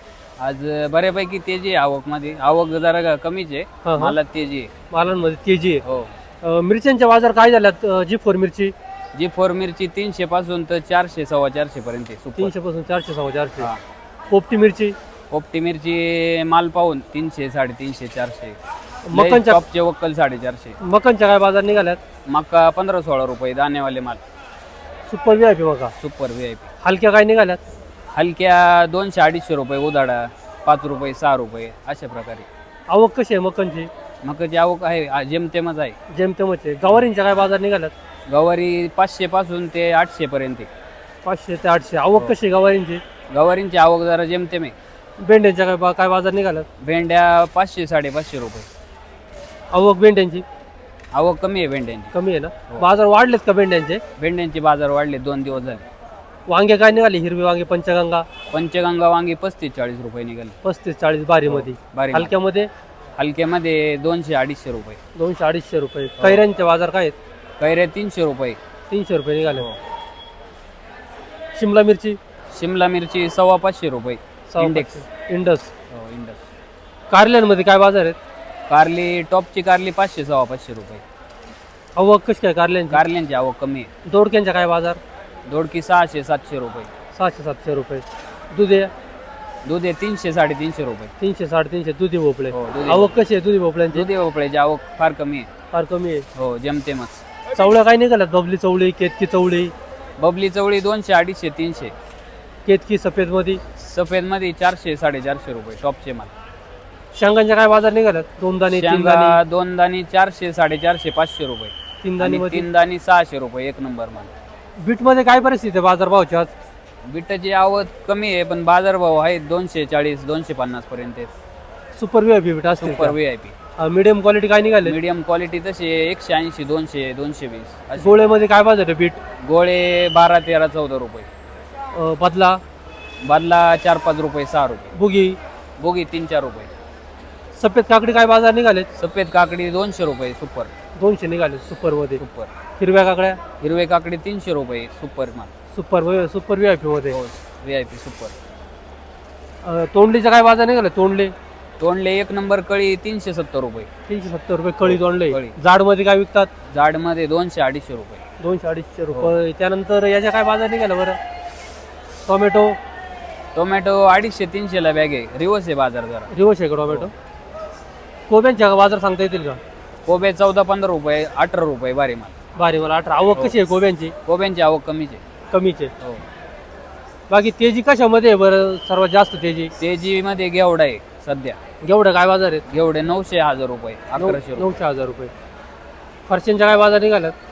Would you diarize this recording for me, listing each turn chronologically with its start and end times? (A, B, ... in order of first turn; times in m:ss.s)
0:00.4-0:04.7 A
0:03.8-0:04.2 B
0:04.9-0:05.8 B
0:05.8-0:06.1 A
0:06.4-0:08.7 B
0:09.1-0:12.5 A
0:12.4-0:13.7 B
0:14.3-0:15.0 B
0:15.3-0:18.6 A
0:19.0-0:19.6 B
0:19.1-0:20.8 A
0:20.8-0:22.0 B
0:22.2-0:24.2 A
0:25.1-0:25.9 B
0:26.0-0:26.7 A
0:26.8-0:27.6 B
0:28.1-0:32.5 A
0:32.9-0:33.9 B
0:34.2-0:36.0 A
0:36.1-0:37.9 B
0:38.3-0:40.7 A
0:41.2-0:43.0 B
0:43.3-0:44.7 A
0:45.2-0:46.6 B
0:46.8-0:48.7 A
0:49.7-0:50.4 B
0:51.1-0:52.1 A
0:52.1-0:54.0 B
0:54.2-0:55.8 A
0:56.5-0:58.2 B
0:58.5-1:00.6 A
1:00.6-1:02.7 B
1:01.4-1:02.3 A
1:03.2-1:05.0 A
1:05.2-1:07.2 B
1:06.2-1:06.4 A
1:07.6-1:08.6 A
1:08.9-1:09.7 B
1:09.5-1:09.8 A
1:11.5-1:12.2 B
1:12.5-1:15.0 A
1:14.5-1:15.7 B
1:15.9-1:16.4 A
1:17.1-1:18.2 B
1:18.7-1:21.0 A
1:22.0-1:23.0 B
1:22.9-1:23.9 A
1:24.1-1:25.0 B
1:25.4-1:26.9 A
1:27.1-1:28.9 B
1:29.6-1:31.1 A
1:31.2-1:34.1 B
1:32.5-1:33.2 A
1:33.9-1:35.5 A
1:35.7-1:36.2 B
1:36.3-1:37.2 A
1:37.5-1:39.7 B
1:40.2-1:41.9 A
1:42.6-1:43.6 B
1:43.8-1:46.3 A
1:47.1-1:49.4 B
1:48.7-1:54.3 A
1:52.0-1:52.6 B
1:54.8-1:56.5 B
1:57.0-2:01.3 A
2:01.9-2:03.2 B
2:02.8-2:03.5 A
2:03.8-2:05.0 B
2:04.8-2:08.2 A
2:08.0-2:09.2 B
2:09.4-2:11.3 A
2:11.9-2:12.6 B
2:13.2-2:14.9 A
2:14.9-2:15.4 B
2:15.8-2:16.7 A
2:17.5-2:18.9 B
2:19.0-2:20.7 A
2:21.0-2:22.2 B
2:22.2-2:22.5 A
2:22.8-2:23.4 B
2:23.6-2:25.5 A
2:25.7-2:27.2 B
2:27.1-2:28.4 A
2:29.6-2:31.3 B
2:31.8-2:33.9 A
2:34.1-2:36.5 B
2:34.8-2:35.6 A
2:36.7-2:38.2 A
2:38.4-2:41.2 B
2:42.2-2:42.8 B
2:43.5-2:46.3 A
2:46.3-2:47.1 B
2:48.3-2:49.6 B
2:50.0-2:52.3 A
2:52.6-2:54.1 B
2:54.2-2:55.2 A
2:55.5-2:55.9 B
2:57.3-2:59.7 B
2:59.8-3:01.6 A
3:01.8-3:02.6 B
3:02.7-3:04.8 A
3:04.2-3:05.3 B
3:06.3-3:07.3 B